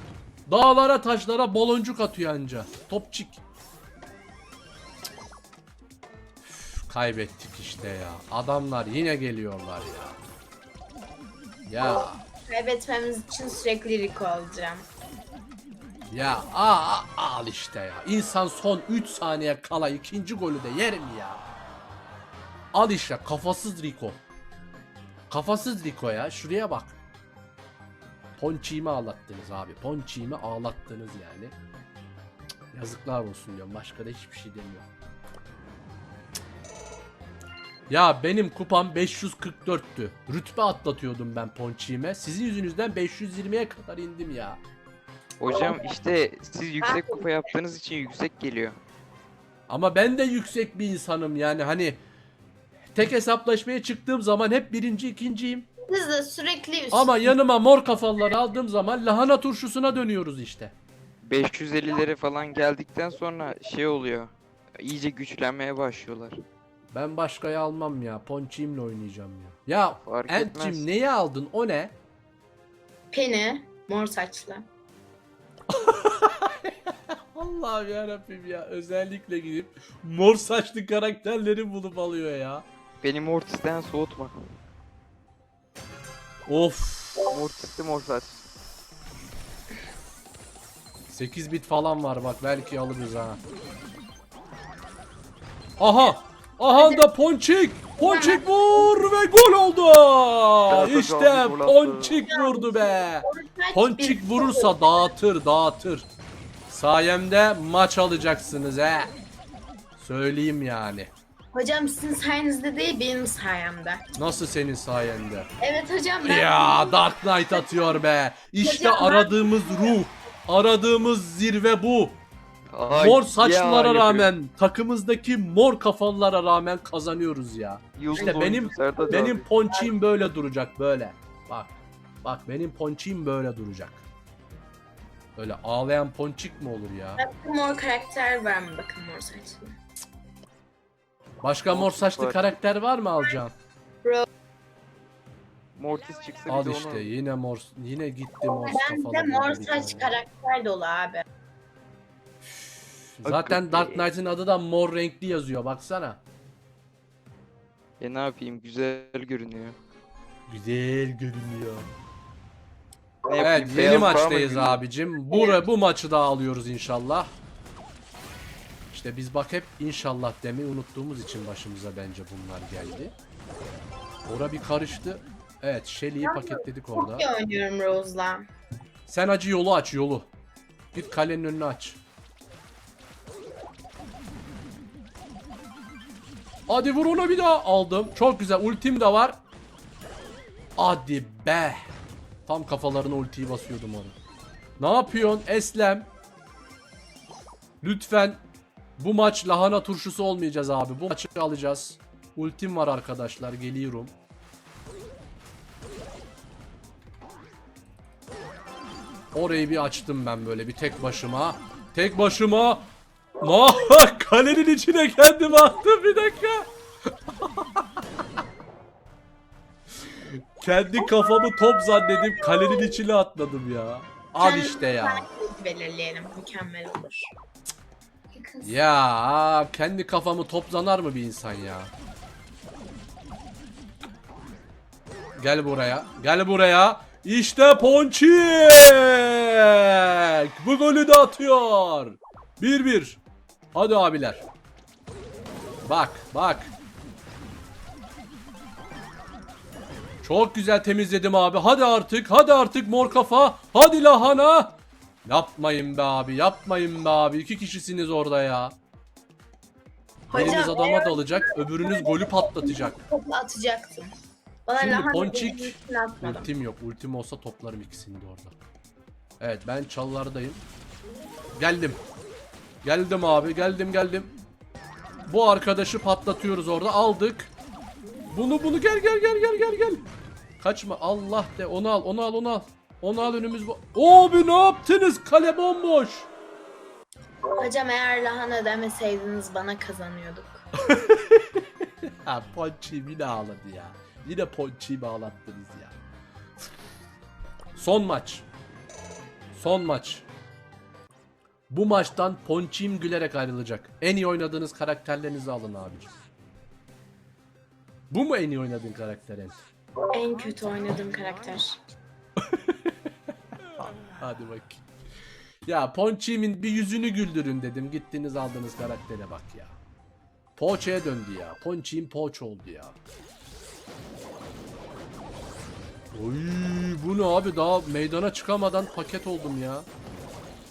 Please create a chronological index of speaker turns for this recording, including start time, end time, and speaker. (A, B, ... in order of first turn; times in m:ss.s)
0:00.5-0:03.4 A
0:06.5-0:10.2 A
0:11.7-0:12.2 A
0:12.5-0:14.9 B
0:16.1-0:21.4 A
0:22.7-0:24.2 A
0:25.3-0:27.0 A
0:28.4-0:31.5 A
0:32.7-0:34.9 A
0:37.9-0:44.6 A
0:45.4-0:48.8 C
0:46.8-0:47.5 B
0:49.7-0:52.0 A
0:52.9-0:55.7 A
0:55.9-0:57.4 B
0:56.9-1:00.7 A
1:01.2-1:06.4 C
1:06.9-1:12.0 A
1:10.0-1:10.9 C
1:13.1-1:14.7 B
1:15.7-1:22.7 A
1:23.0-1:24.4 C
1:26.5-1:27.3 A
1:27.3-1:28.5 C
1:31.1-1:33.4 A
1:35.8-1:46.1 A
1:36.7-1:37.1 B
1:38.0-1:39.1 B
1:40.7-1:42.2 C
1:42.3-1:45.1 B
1:46.7-1:49.1 A
1:50.0-1:51.1 A
1:51.5-1:54.0 B
1:54.2-1:55.5 A
1:55.6-1:58.0 B
1:56.2-2:02.2 A
1:58.6-2:00.0 B
2:02.7-2:04.3 C
2:02.9-2:14.0 A
2:08.0-2:09.4 C
2:08.2-2:08.4 B
2:09.0-2:09.9 B
2:15.4-2:17.2 A
2:17.2-2:19.8 B
2:21.4-2:23.5 A
2:21.7-2:22.6 C
2:25.8-2:27.1 C
2:26.5-2:30.2 A
2:28.5-2:31.2 B
2:33.0-2:36.2 A
2:33.2-2:34.1 C
2:38.0-2:39.8 C
2:40.5-2:41.9 A
2:43.3-2:44.8 C
2:43.4-2:47.3 A
2:45.3-2:45.6 B
2:48.9-2:53.1 A
2:54.3-2:57.3 A
2:56.2-2:58.5 B
2:59.1-3:00.3 A
3:00.9-3:02.0 A
3:06.7-3:09.4 A
3:10.8-3:11.9 A
3:12.5-3:14.2 A
3:14.8-3:16.1 A
3:17.8-3:18.4 A
3:19.0-3:24.1 A
3:29.3-3:32.9 A
3:33.4-3:36.7 A
3:37.4-3:37.8 A
3:40.6-3:45.3 A
3:41.0-3:42.9 B
3:44.4-3:47.3 B
3:48.3-3:48.8 B
3:48.6-3:51.9 A
3:55.4-4:03.2 A
4:03.7-4:04.4 A
4:05.9-4:06.7 A
4:10.2-4:14.7 A
4:15.2-4:18.8 A
4:20.3-4:24.1 B
4:20.3-4:23.0 A
4:24.7-4:26.5 B
4:24.8-4:28.6 A
4:29.4-4:30.6 A
4:31.6-4:32.0 A
4:32.8-4:34.3 A
4:35.3-4:37.5 A
4:38.3-4:40.1 A
4:40.6-4:46.3 A
4:47.6-4:50.7 B
4:50.9-4:56.0 A
4:57.8-4:58.5 A
4:59.5-5:00.3 A
5:01.7-5:06.1 A
5:08.1-5:09.6 A
5:10.1-5:11.8 B
5:12.5-5:12.8 A
5:13.8-5:14.9 A
5:15.7-5:19.8 A
5:20.6-5:23.0 A
5:26.1-5:29.9 A